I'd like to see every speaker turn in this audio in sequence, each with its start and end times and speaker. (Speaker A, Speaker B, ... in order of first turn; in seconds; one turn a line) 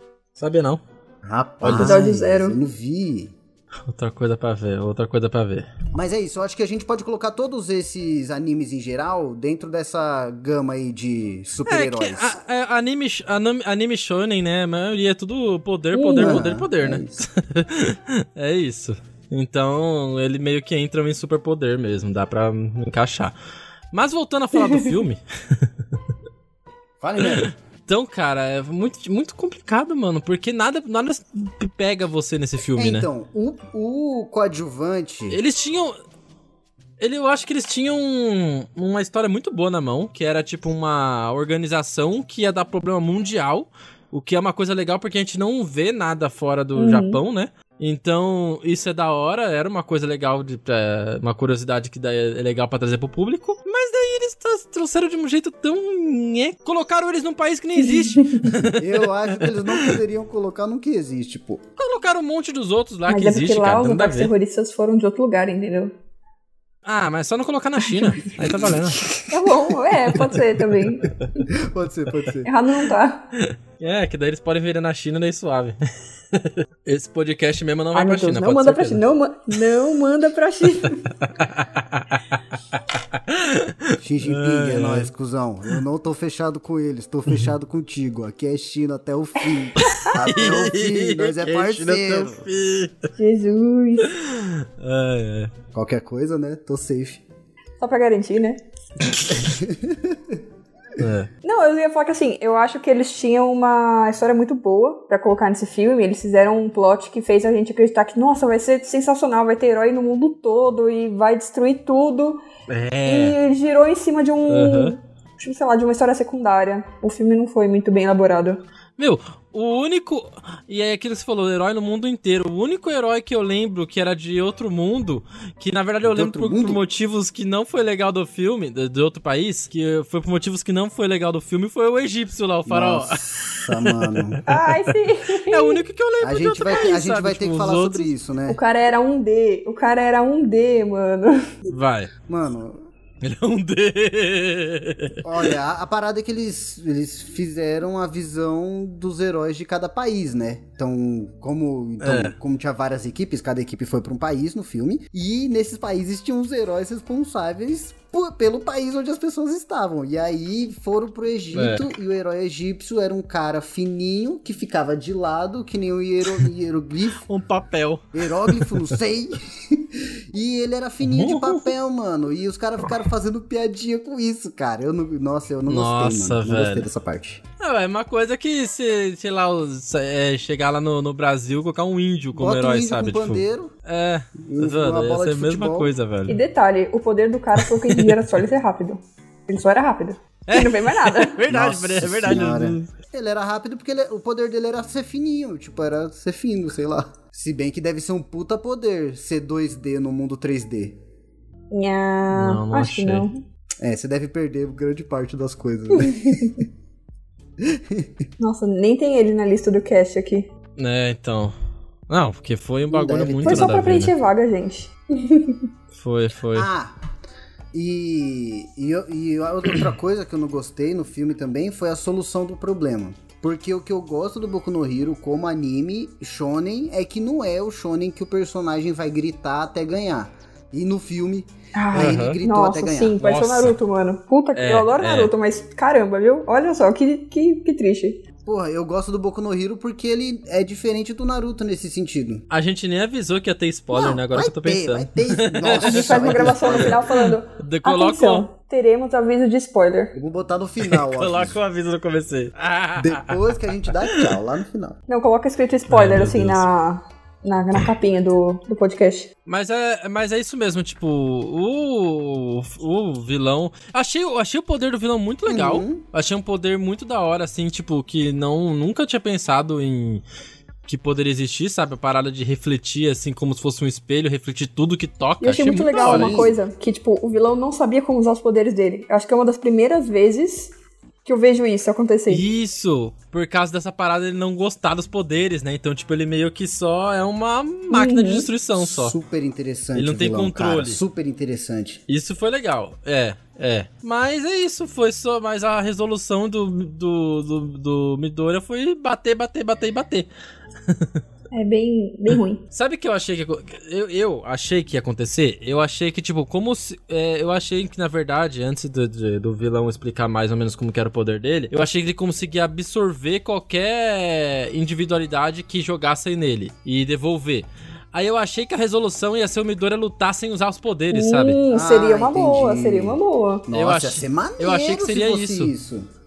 Speaker A: 0.4-0.8
Speaker B: 1.2-3.3
Speaker A: 1.6-2.0
Speaker C: 1.6-2.6
Speaker A: 3.9-5.7
Speaker B: 5.9-12.4
Speaker A: 11.7-23.4
Speaker C: 15.9-16.5
Speaker B: 16.2-17.2
Speaker A: 23.9-26.0
Speaker C: 24.7-24.9
Speaker B: 27.0-27.5
Speaker A: 27.2-33.1
Speaker B: 32.8-35.4
Speaker A: 35.3-36.0
Speaker A: 37.0-60.0
Speaker C: 46.8-47.2
Speaker B: 58.7-61.6
Speaker A: 61.8-64.3
Speaker C: 63.1-65.9
Speaker A: 66.8-69.1
Speaker C: 69.3-71.5
Speaker A: 70.1-70.7
Speaker B: 71.5-72.5
Speaker C: 72.5-73.3
Speaker A: 73.4-75.8
Speaker A: 76.3-79.0
Speaker C: 77.9-81.1
Speaker A: 81.3-82.2
Speaker A: 82.7-85.1
Speaker B: 84.0-92.4
Speaker A: 89.8-93.1
Speaker C: 89.9-90.1
Speaker C: 93.2-94.1
Speaker A: 94.0-95.5
Speaker B: 95.7-97.2
Speaker C: 97.8-98.6
Speaker B: 99.3-100.3
Speaker A: 101.0-101.3
Speaker C: 101.4-112.4
Speaker A: 112.7-113.4
Speaker C: 113.1-118.6
Speaker A: 114.5-115.0
Speaker A: 119.0-134.9
Speaker B: 126.0-126.8
Speaker B: 132.7-134.4
Speaker C: 134.5-135.8
Speaker A: 135.5-138.1
Speaker B: 136.2-138.6
Speaker C: 138.5-141.6
Speaker A: 141.7-142.1
Speaker B: 142.3-142.9
Speaker A: 143.2-145.5
Speaker B: 145.2-167.2
Speaker A: 152.0-152.3
Speaker A: 161.5-161.9
Speaker A: 167.3-168.9
Speaker B: 168.1-177.4
Speaker A: 171.0-171.7
Speaker A: 175.7-176.9
Speaker A: 177.6-186.4
Speaker B: 182.3-183.7
Speaker B: 184.4-185.9
Speaker C: 186.3-191.4
Speaker A: 187.6-188.2
Speaker A: 190.5-192.9
Speaker B: 191.5-201.0
Speaker C: 201.7-203.4
Speaker A: 202.3-203.3
Speaker B: 203.8-206.7
Speaker C: 206.0-206.5
Speaker B: 207.6-208.1
Speaker C: 208.4-210.5
Speaker A: 210.8-211.6
Speaker A: 212.1-214.1
Speaker B: 212.9-213.8
Speaker C: 213.4-215.7
Speaker A: 215.9-216.7
Speaker B: 216.5-216.9
Speaker B: 217.7-233.2
Speaker C: 231.8-238.2
Speaker A: 231.9-232.4
Speaker A: 233.2-233.8
Speaker A: 234.6-235.3
Speaker B: 238.4-242.4
Speaker A: 242.5-248.5
Speaker B: 243.9-247.1
Speaker C: 245.7-250.1
Speaker B: 250.1-251.6
Speaker A: 250.8-253.4
Speaker B: 253.0-255.0
Speaker A: 254.1-254.3
Speaker C: 255.1-259.3
Speaker A: 255.9-256.7
Speaker A: 259.5-270.2
Speaker B: 265.5-266.0
Speaker A: 270.9-276.5
Speaker C: 275.4-280.7
Speaker B: 276.0-276.6
Speaker C: 281.2-282.4
Speaker A: 282.3-289.1
Speaker C: 287.9-288.5
Speaker B: 288.8-292.0
Speaker A: 289.9-291.0
Speaker A: 292.1-300.3
Speaker A: 300.9-301.2
Speaker C: 301.5-302.6
Speaker A: 302.3-321.6
Speaker C: 321.1-323.7
Speaker B: 321.7-326.1
Speaker A: 323.7-325.7